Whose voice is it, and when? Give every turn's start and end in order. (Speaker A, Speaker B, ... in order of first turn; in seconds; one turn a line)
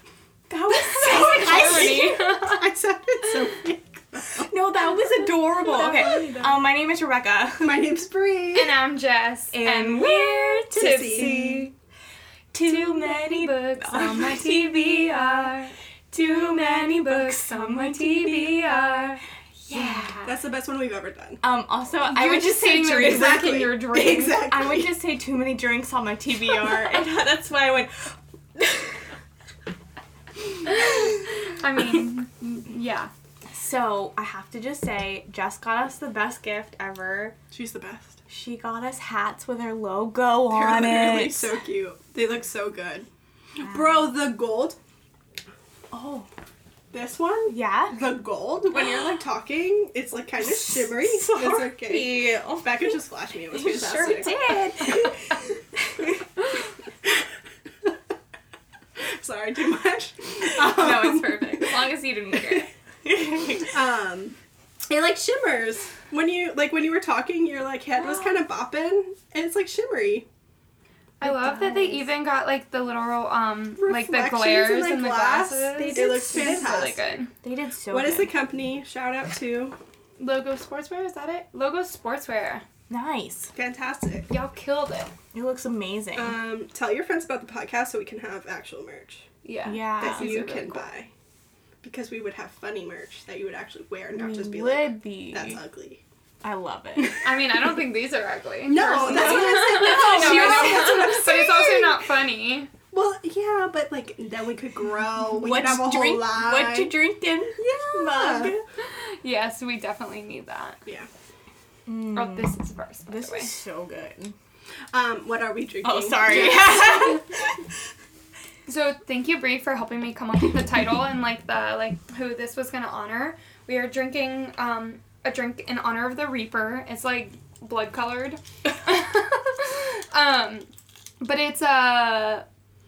Speaker A: 0.5-2.1
Speaker B: 0.7-2.6
Speaker C: 1.1-4.5
Speaker A: 4.4-7.8
Speaker B: 5.7-6.5
Speaker C: 6.0-6.3
Speaker C: 7.6-8.8
Speaker B: 8.6-11.7
Speaker A: 9.5-11.7
Speaker C: 10.7-11.4
Speaker A: 12.5-15.5
Speaker B: 12.7-20.3
Speaker A: 16.1-18.9
Speaker A: 19.7-20.3
Speaker C: 20.2-21.4
Speaker A: 21.4-23.7
Speaker B: 22.1-24.5
Speaker C: 22.7-24.9
Speaker A: 24.2-29.1
Speaker B: 30.7-33.1
Speaker A: 33.5-37.4
Speaker C: 37.5-38.2
Speaker A: 38.3-41.5
Speaker C: 40.5-44.8
Speaker A: 45.9-46.3
Speaker C: 46.9-54.4
Speaker A: 47.5-48.0
Speaker A: 50.4-52.9
Speaker A: 53.5-56.2
Speaker C: 59.0-61.8
Speaker A: 60.5-63.8
Speaker C: 62.3-62.6
Speaker C: 63.6-64.3
Speaker C: 64.9-70.3
Speaker A: 68.0-68.3
Speaker B: 71.2-77.3
Speaker A: 71.2-72.1
Speaker C: 73.8-77.0
Speaker A: 75.8-76.9
Speaker A: 77.4-78.3
Speaker C: 77.9-79.8
Speaker B: 80.2-82.7
Speaker A: 82.9-83.5
Speaker C: 83.5-84.3
Speaker B: 84.3-85.1
Speaker A: 85.3-86.4
Speaker C: 86.2-89.3
Speaker B: 89.5-90.8
Speaker A: 89.7-90.5
Speaker C: 90.0-91.1
Speaker C: 91.8-96.0
Speaker A: 94.2-95.6
Speaker A: 96.4-97.2
Speaker B: 97.2-102.7
Speaker C: 98.7-102.0
Speaker A: 99.0-101.1
Speaker C: 102.9-107.0
Speaker A: 105.3-108.6
Speaker C: 107.6-108.5
Speaker B: 108.8-110.8
Speaker A: 111.9-112.5
Speaker B: 112.1-113.5
Speaker A: 113.1-114.3
Speaker C: 114.9-116.9
Speaker A: 115.8-117.5
Speaker B: 116.3-117.2
Speaker B: 118.7-130.7
Speaker B: 131.2-132.4